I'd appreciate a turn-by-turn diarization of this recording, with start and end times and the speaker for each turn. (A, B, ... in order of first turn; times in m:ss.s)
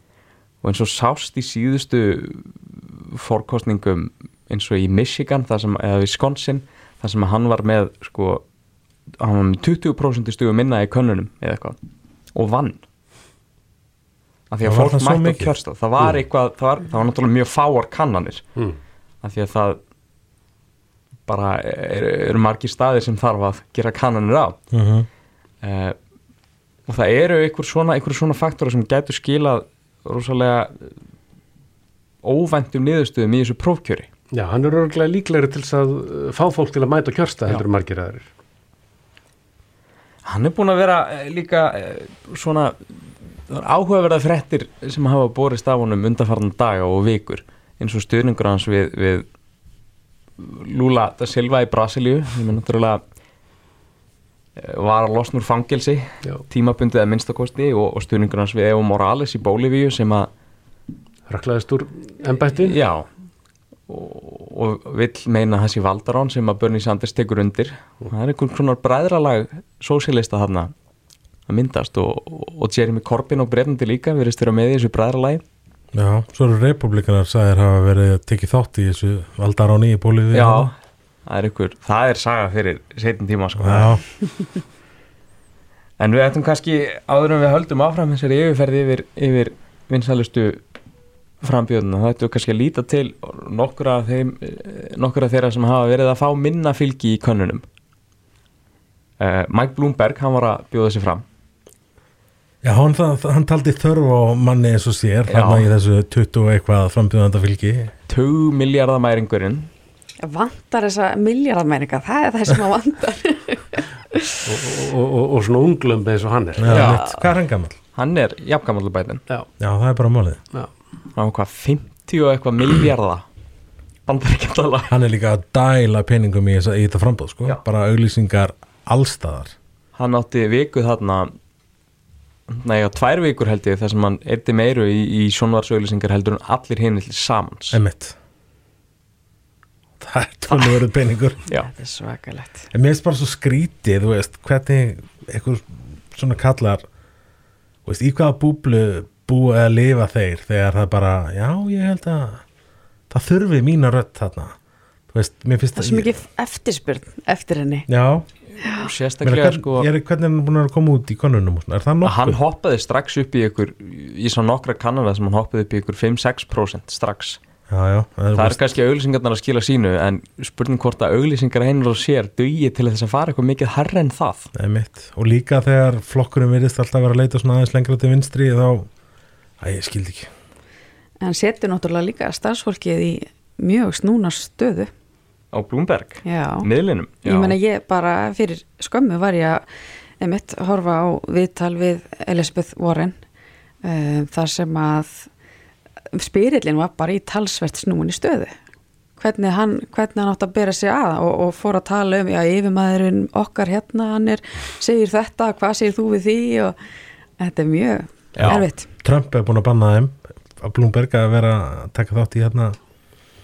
0:00.6-0:08.4 A
0:09.2-0:11.8 A
0:12.3-0:12.8 A
0:14.5-0:18.4 A
0:14.6-0:15.5 B
0:19.2-0:19.8 A
0:21.2-0:24.6 A
0:24.7-0:25.1 B
0:25.6-0:26.0 A
0:26.9-0:30.9 A
0:32.2-0:34.1 A
0:34.3-0:38.2 C
0:40.2-0:49.2 A
0:50.4-0:53.0 A
0:54.6-1:00.3 A
1:01.3-1:02.8 C
1:02.6-1:03.1 A
1:03.9-1:10.7 A
1:11.5-1:15.4 A
1:15.9-1:20.7 B
1:20.3-1:20.7 A
1:21.2-1:24.0 A
1:23.6-1:24.0 B
1:26.0-1:30.6 A
1:31.4-1:37.6 A
1:39.2-1:41.2 A
1:42.6-1:47.9 B
1:45.3-1:45.7 A
1:48.1-1:49.7 A
1:50.2-1:54.4 D
1:54.4-1:56.9 C
1:56.6-1:57.8 B
1:56.7-1:57.1 A
1:57.9-1:59.2 A
1:59.6-2:00.4 B
2:01.2-2:03.2 A
2:04.0-2:04.9 A
2:04.9-2:09.5 B
2:10.0-2:11.3 A
2:12.5-2:17.8 A
2:17.7-2:18.2 B
2:20.0-2:21.4 B
2:21.7-2:22.7 D
2:22.7-2:26.8 B
2:27.8-2:32.4 B
2:33.1-2:34.5 B
2:35.1-2:36.2 B
2:35.7-2:37.9 D
2:37.9-2:38.3 B
2:38.6-2:38.9 D
2:38.6-2:39.9 A
2:39.2-2:42.4 B
2:42.0-2:47.4 A
2:47.7-2:48.6 B
2:48.3-2:54.5 A
2:54.5-2:58.9 B
2:59.6-3:00.3 B
3:01.2-3:04.9 D
3:05.5-3:07.6 A
3:06.2-3:06.7 D
3:07.2-3:09.6 D
3:10.2-3:13.2 D
3:13.8-3:15.3 D
3:16.1-3:18.5 D
3:19.2-3:26.8 D
3:27.4-3:28.8 D
3:28.4-3:28.6 A
3:28.5-3:32.8 B